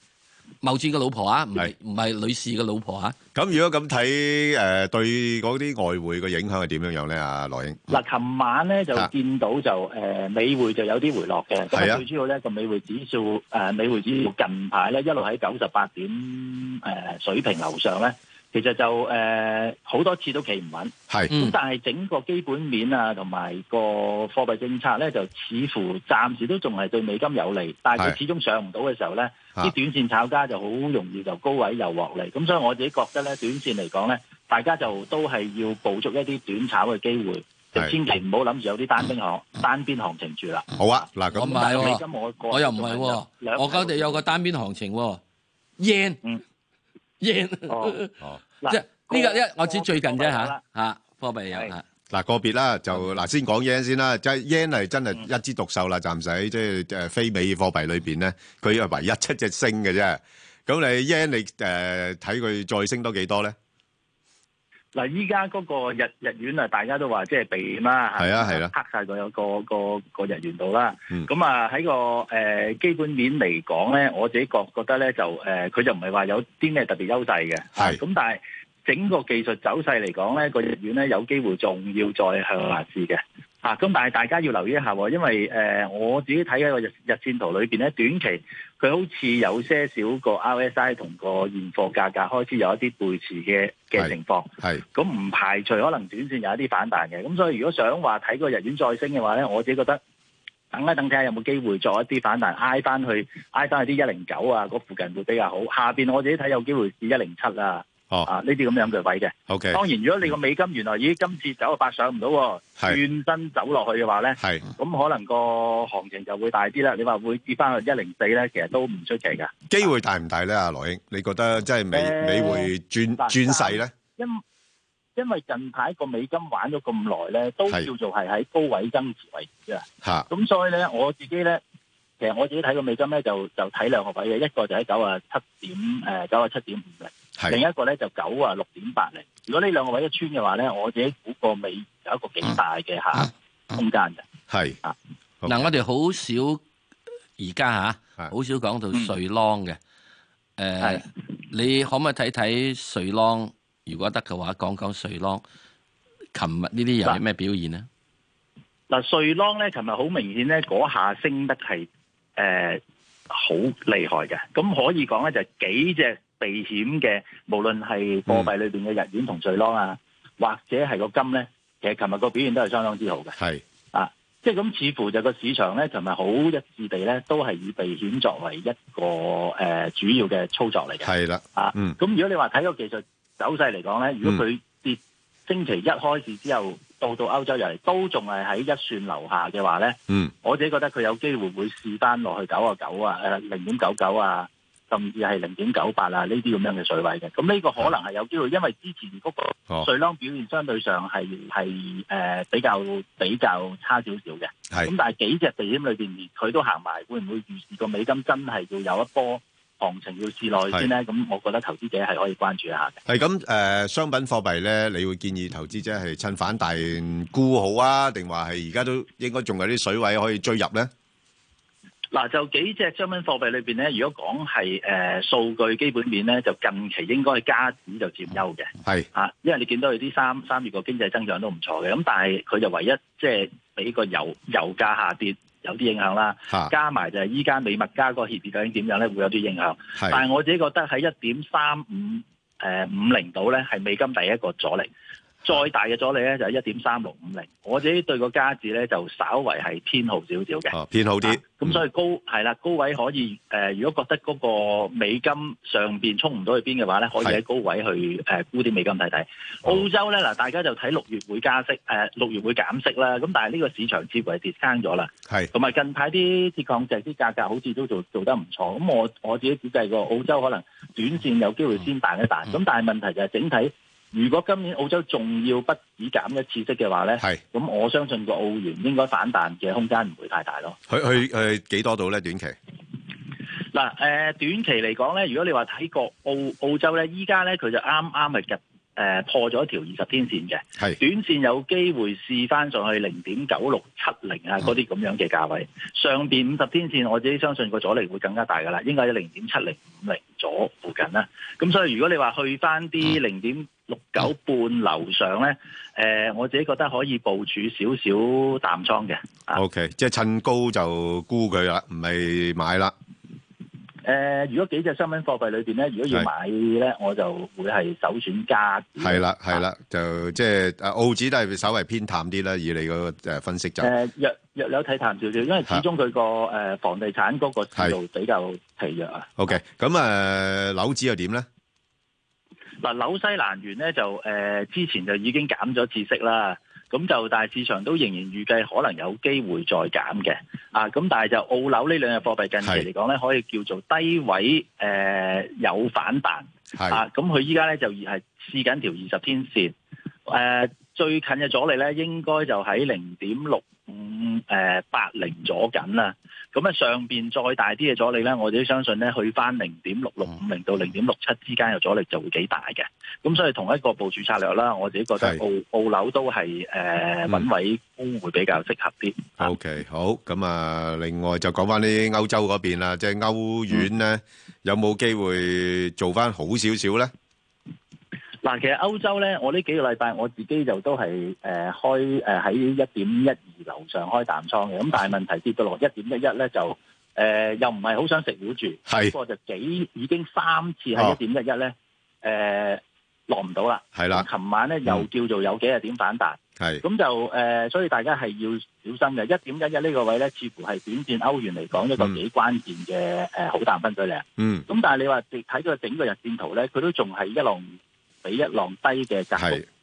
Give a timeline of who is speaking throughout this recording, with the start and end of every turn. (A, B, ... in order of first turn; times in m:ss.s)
0:00.6-0:03.2 A
0:03.3-0:07.8 B
0:07.9-0:40.8 C
0:11.7-0:12.0 B
0:21.3-0:21.6 A
0:40.8-0:41.9 B
0:41.3-0:45.2 A
0:41.4-0:44.2 C
0:45.8-0:46.2 A
0:47.2-0:48.1 A
0:47.7-0:48.0 C
0:48.6-0:50.6 C
0:48.7-0:51.8 A
0:52.1-1:03.5 B
1:04.9-1:40.0 C
1:08.2-1:08.7 B
1:34.0-1:34.8 B
1:40.7-1:59.5 C
1:49.5-1:49.8 B
1:54.4-1:54.7 B
1:59.7-2:03.9 B
2:01.9-2:04.4 C
2:05.2-2:11.6 C
2:10.0-2:10.3 B
2:12.2-2:24.2 C
2:24.5-2:24.8 B
2:25.4-2:26.6 A
2:27.4-2:29.8 A
2:30.6-2:35.4 A
2:36.3-2:37.9 A
2:38.9-2:53.4 C
2:53.9-3:33.0 C
3:01.0-3:02.0 B
3:33.1-3:40.9 B
3:42.1-4:04.9 C
4:00.0-4:00.2 B
4:05.4-4:40.8 C
4:10.7-4:11.8 B
4:40.9-4:42.6 B
4:43.7-5:09.6 C
5:09.5-5:12.9 B
5:14.0-5:19.6 C
5:19.0-5:23.9 B
5:23.8-5:29.3 C
5:29.4-5:31.4 B
5:32.8-5:49.7 C
5:42.6-5:42.9 B
5:46.8-5:47.0 B
5:50.3-6:09.5 C
6:09.4-6:17.1 B
6:18.4-6:49.6 C
6:28.9-6:29.1 B
6:33.9-6:34.3 B
6:44.4-6:44.6 B
6:49.4-6:49.6 B